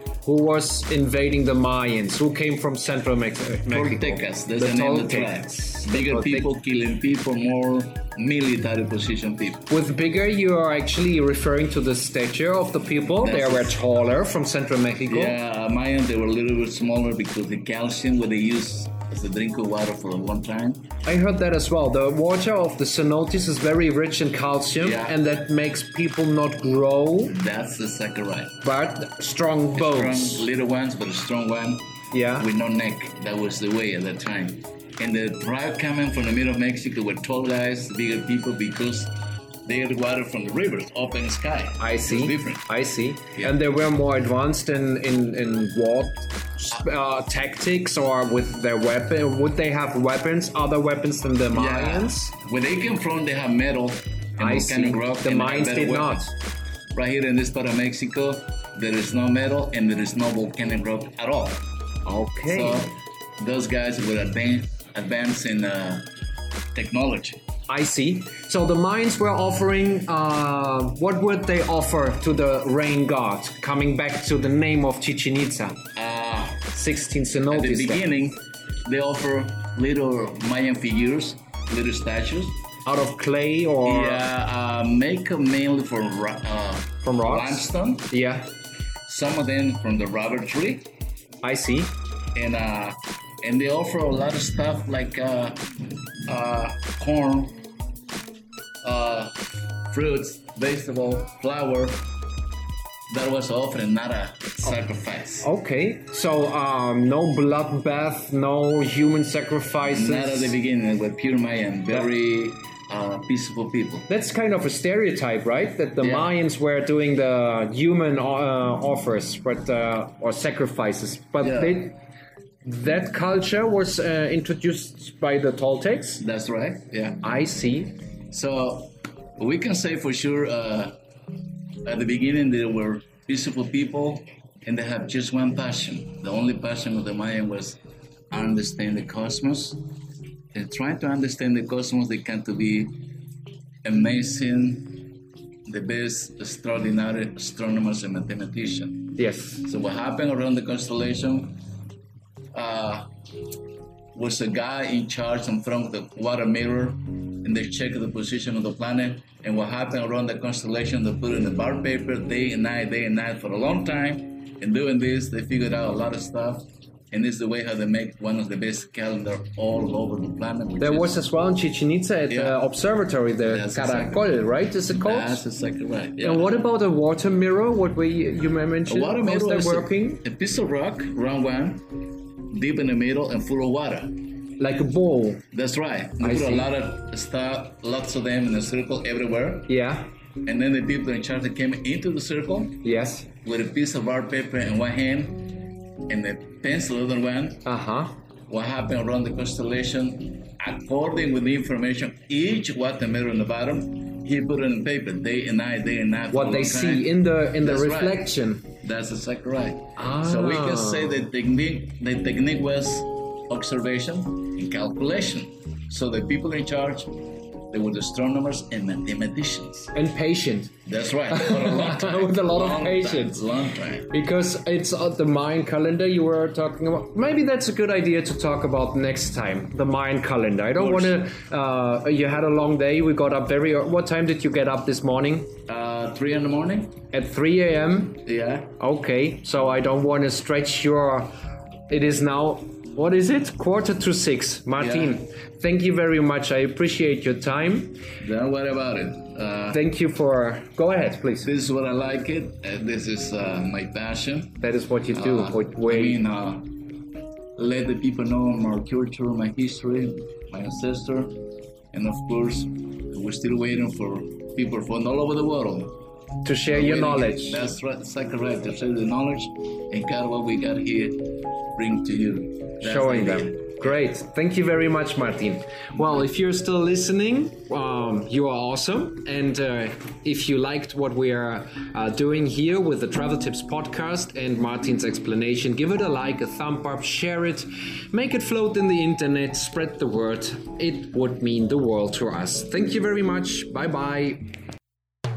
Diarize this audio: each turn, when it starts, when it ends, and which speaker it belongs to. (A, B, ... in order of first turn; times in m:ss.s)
0:00.2-0:06.5 A
0:03.7-0:09.6 B
0:09.7-0:15.4 A
0:13.1-0:13.8 B
0:15.1-0:20.9 B
0:21.0-0:27.4 A
0:24.8-0:25.2 B
0:27.3-0:28.6 B
0:28.6-0:30.5 A
0:29.7-0:39.1 B
0:32.1-0:32.5 A
0:39.6-0:42.7 B
0:41.8-0:52.3 A
0:51.5-0:56.3 B
0:54.4-0:56.3 A
0:56.9-1:01.6 B
1:02.0-1:02.9 A
1:02.5-1:06.1 B
1:06.7-1:07.4 B
1:07.7-1:15.8 A
1:16.0-1:16.7 B
1:16.7-1:18.1 A
1:17.5-1:22.6 B
1:22.8-1:24.2 A
1:23.8-1:28.1 B
1:27.0-1:28.5 A
1:29.0-1:30.9 B
1:31.4-1:31.9 A
1:32.3-1:35.6 B
1:36.2-1:37.6 B
1:38.8-1:39.4 B
1:39.9-1:42.0 B
1:43.1-1:45.5 B
1:45.4-1:50.6 A
1:49.8-1:54.1 B
1:54.1-2:02.0 A
1:56.0-1:56.4 B
2:01.4-2:01.9 B
2:02.6-2:06.2 A
2:06.2-2:07.2 B
2:07.2-2:07.9 A
2:08.3-2:11.0 B
2:11.8-2:17.8 B
2:18.3-2:19.8 B
2:20.5-2:23.0 B
2:23.8-2:25.0 B
2:25.7-2:31.6 B
2:29.2-2:29.6 A
2:32.5-2:33.1 B
2:34.1-2:51.2 B
2:50.8-2:55.4 A
2:52.3-2:52.6 B
2:53.4-2:54.3 B
2:54.9-2:56.6 B
2:56.2-3:00.2 A
2:58.9-3:01.8 B
3:02.5-3:04.1 B
3:04.6-3:05.4 A
3:05.5-3:09.7 B
3:06.2-3:06.7 A
3:09.7-3:10.1 A
3:10.4-3:12.8 B
3:12.8-3:13.3 A
3:13.4-3:17.6 B
3:17.6-3:18.1 A
3:18.5-3:37.1 B
3:26.3-3:28.7 A
3:30.0-3:31.3 A
3:37.7-3:39.9 B
3:39.9-3:43.4 A
3:40.8-3:44.1 B
3:44.1-3:55.5 A
3:50.7-3:51.2 B
3:55.7-3:57.0 B
3:57.1-3:58.2 A
3:58.2-3:58.7 B
3:58.8-4:01.3 A
4:01.9-4:08.0 A
4:04.8-4:05.2 B
4:08.2-4:09.8 B
4:09.7-4:11.5 A
4:11.4-4:14.6 B
4:14.6-4:16.2 A
4:15.1-4:16.7 B
4:17.6-4:21.4 B
4:21.9-4:26.0 B
4:26.4-4:27.6 A
4:26.7-4:34.0 B
4:32.8-4:54.4 A